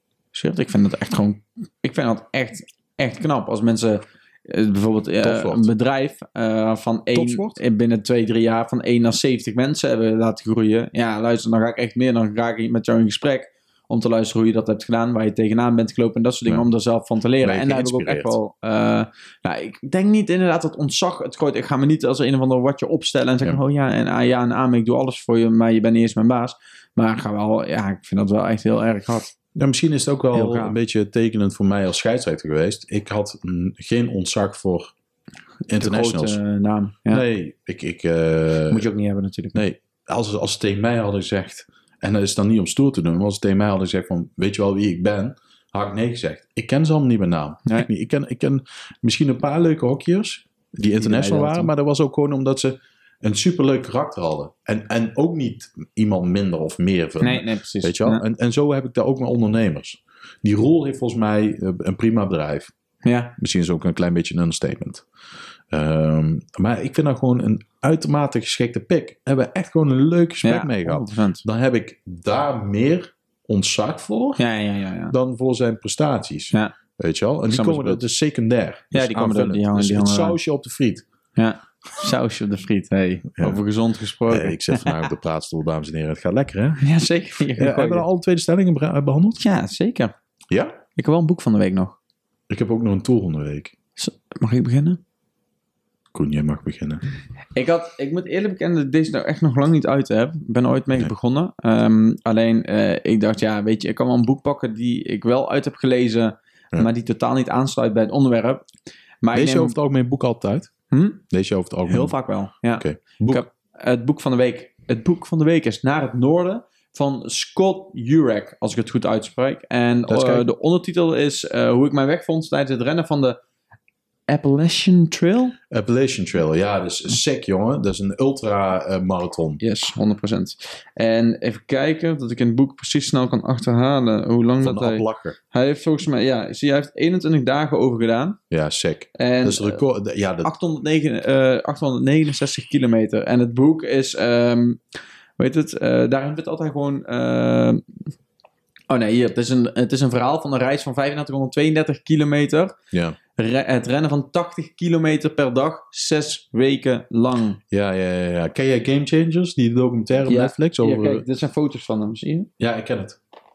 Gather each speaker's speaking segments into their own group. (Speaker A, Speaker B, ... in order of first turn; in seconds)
Speaker A: 0.3-29.3, 30.3-30.7, 35.7-37.2, 38.7-39.6, 51.0-51.7, 57.2-58.2, 63.0-63.3, 70.4-71.5, 74.4-75.1, 77.5-78.0, 78.9-80.4, 81.4-85.1, 86.8-88.0, 89.3-90.1, 91.0-92.0, 94.0-95.0, 97.5-108.6, 109.2-109.8, 110.9-111.2, 111.9-123.4, 124.3-125.5, 129.6-138.4, 139.2-139.8, 140.4-144.8, 145.4-147.8, 148.9-152.8, 153.4-157.6, 160.2-162.5
Speaker B: 5.2-5.7, 7.1-7.6, 17.4-18.4, 29.6-34.9, 35.7-36.4, 37.1-38.8, 39.5-62.7, 63.4-65.0, 65.7-74.4, 75.1-81.0, 83.4-83.6, 84.3-86.8, 87.5-89.4, 90.5-90.8, 92.5-93.7, 96.1-97.0, 109.3-110.7, 111.3-112.1, 112.7-113.4, 120.1-120.5, 125.7-129.6, 134.6-135.4, 138.5-140.5, 152.9-153.2, 157.7-161.2, 162.6-163.2